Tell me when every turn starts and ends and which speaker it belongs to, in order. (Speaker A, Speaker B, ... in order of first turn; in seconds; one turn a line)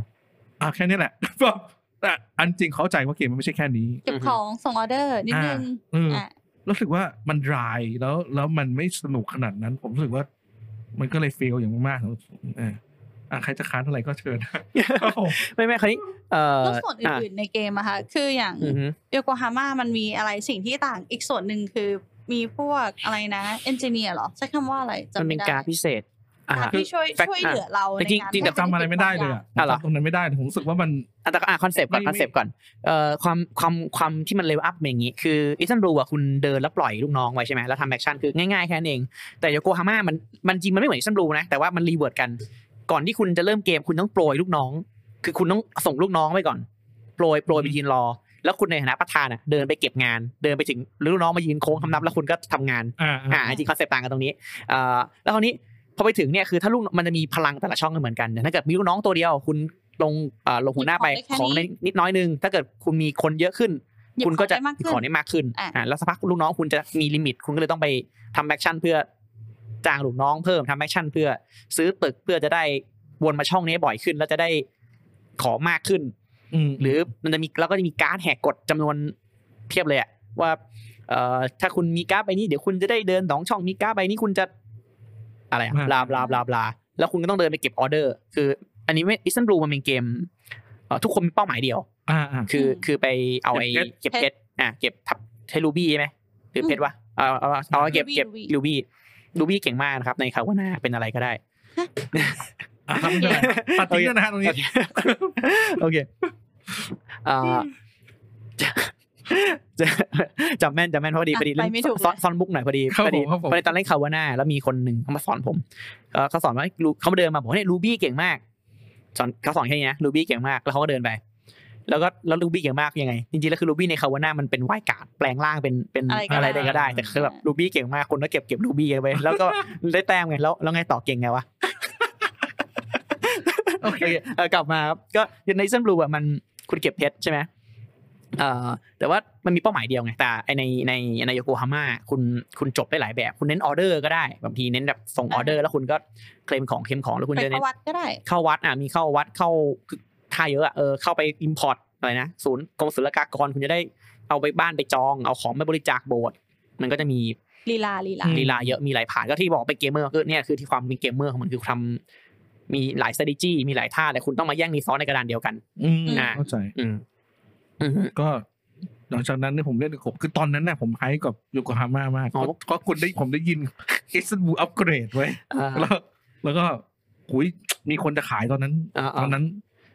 Speaker A: 0.6-4.1
Speaker B: 4.1-6.3
Speaker C: 4.1-4.4
Speaker A: 5.3-10.3
Speaker A: 11.0-12.8
Speaker A: 13.3-15.4
Speaker C: 14.8-17.2
Speaker B: 16.6-25.6
Speaker C: 18.6-18.9
Speaker C: 25.2-28.5
Speaker B: 26.5-29.4
Speaker A: 28.4-31.1
Speaker C: 29.6-29.8
Speaker C: 31.2-46.6
Speaker A: 31.9-32.3
Speaker C: 47.2-69.1
Speaker A: 53.0-53.6
Speaker B: 60.8-61.7
Speaker B: 64.2-65.8
Speaker C: 69.8-74.7
Speaker C: 75.4-76.1
Speaker A: 76.5-77.0
Speaker C: 76.8-79.1
Speaker C: 79.7-84.5
Speaker C: 85.5-90.3
Speaker A: 85.7-86.2
Speaker C: 90.9-91.9
Speaker A: 92.1-92.5
Speaker C: 92.5-101.4
Speaker B: 92.5-92.8
Speaker A: 93.5-93.9
Speaker A: 97.7-98.0
Speaker B: 97.9-98.5
Speaker C: 102.1-106.1
Speaker A: 102.9-105.4
Speaker B: 103.2-103.4
Speaker C: 107.2-107.7
Speaker C: 108.6-118.4
Speaker B: 111.3-112.2
Speaker A: 112.9-113.7
Speaker C: 119.2-121.2
Speaker C: 121.9-131.9
Speaker B: 126.1-127.4
Speaker A: 126.3-127.1
Speaker A: 129.2-129.6
Speaker C: 133.2-137.5
Speaker A: 133.8-134.2
Speaker C: 138.4-147.6
Speaker B: 145.3-145.6
Speaker B: 147.4-148.2
Speaker C: 148.2-157.4
Speaker B: 157.7-158.4
Speaker A: 158.2-158.8
Speaker C: 158.3-162.0
Speaker C: 162.7-167.0
Speaker A: 165.8-166.7
Speaker B: 166.1-166.3
Speaker C: 167.8-168.1
Speaker A: 168.2-168.4
Speaker A: 169.1-179.6
Speaker C: 175.5-175.9
Speaker C: 178.9-179.4